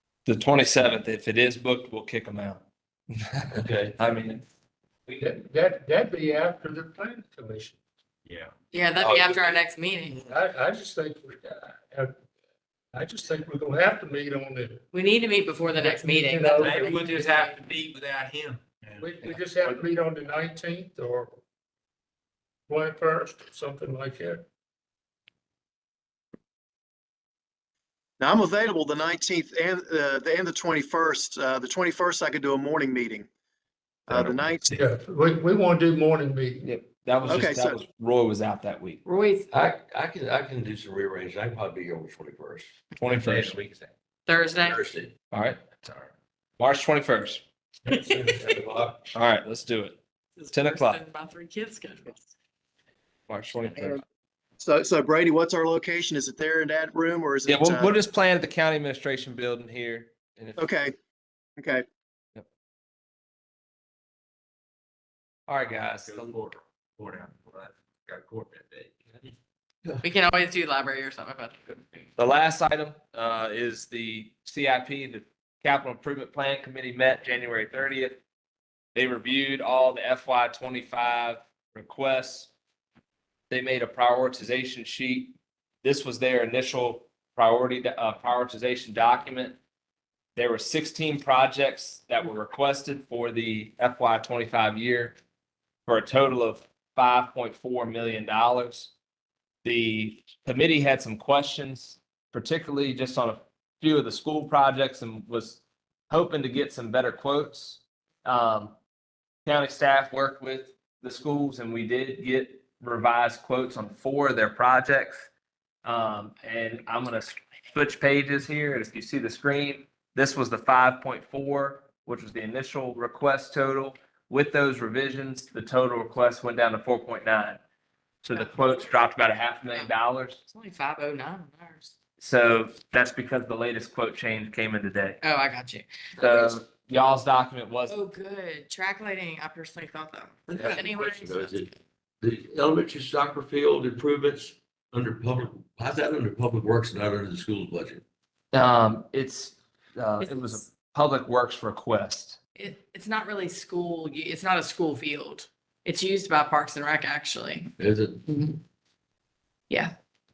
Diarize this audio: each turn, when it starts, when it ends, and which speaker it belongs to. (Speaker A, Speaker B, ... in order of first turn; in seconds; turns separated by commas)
Speaker A: 0.2-2.6, Speaker A: 3.1-4.4, Speaker B: 3.5-4.0, Speaker C: 5.1-7.8, Speaker D: 8.2-8.5, Speaker E: 8.7-10.2, Speaker B: 9.0-9.6, Speaker C: 10.2-12.2, Speaker C: 12.9-14.8, Speaker E: 14.9-17.6, Speaker C: 15.7-17.1, Speaker D: 16.6-19.0, Speaker C: 19.0-21.4, Speaker A: 19.2-19.8, Speaker C: 22.7-24.4, Speaker F: 28.2-33.3, Speaker F: 34.1-34.8, Speaker C: 34.7-36.7, Speaker A: 36.6-39.0, Speaker F: 37.3-37.8, Speaker E: 39.0-39.5, Speaker B: 39.5-42.7, Speaker A: 43.0-43.6, Speaker D: 43.2-43.9, Speaker E: 44.2-44.9, Speaker B: 44.5-45.1, Speaker A: 45.3-45.6, Speaker D: 45.8-46.1, Speaker A: 46.6-47.4, Speaker B: 47.9-49.1, Speaker A: 49.1-50.0, Speaker E: 50.4-52.3, Speaker A: 50.5-51.0, Speaker A: 53.3-54.0, Speaker F: 54.6-58.0, Speaker A: 57.5-60.7, Speaker F: 60.6-60.9, Speaker F: 61.6-61.8, Speaker D: 65.5-69.2, Speaker A: 65.5-66.3, Speaker E: 70.0-72.1, Speaker A: 72.2-78.1, Speaker A: 78.9-82.5, Speaker A: 83.5-89.6, Speaker A: 90.3-95.2, Speaker A: 95.8-98.9, Speaker A: 99.6-108.8, Speaker A: 109.4-115.3, Speaker A: 115.8-127.6, Speaker A: 128.2-130.4, Speaker E: 128.3-128.9, Speaker E: 130.4-131.9, Speaker A: 132.2-135.2, Speaker E: 135.2-136.6, Speaker A: 136.2-138.0, Speaker E: 137.9-141.7, Speaker B: 140.5-148.0, Speaker A: 148.5-152.4, Speaker E: 150.2-150.7, Speaker E: 152.6-157.7, Speaker B: 157.8-158.2, Speaker E: 158.2-158.6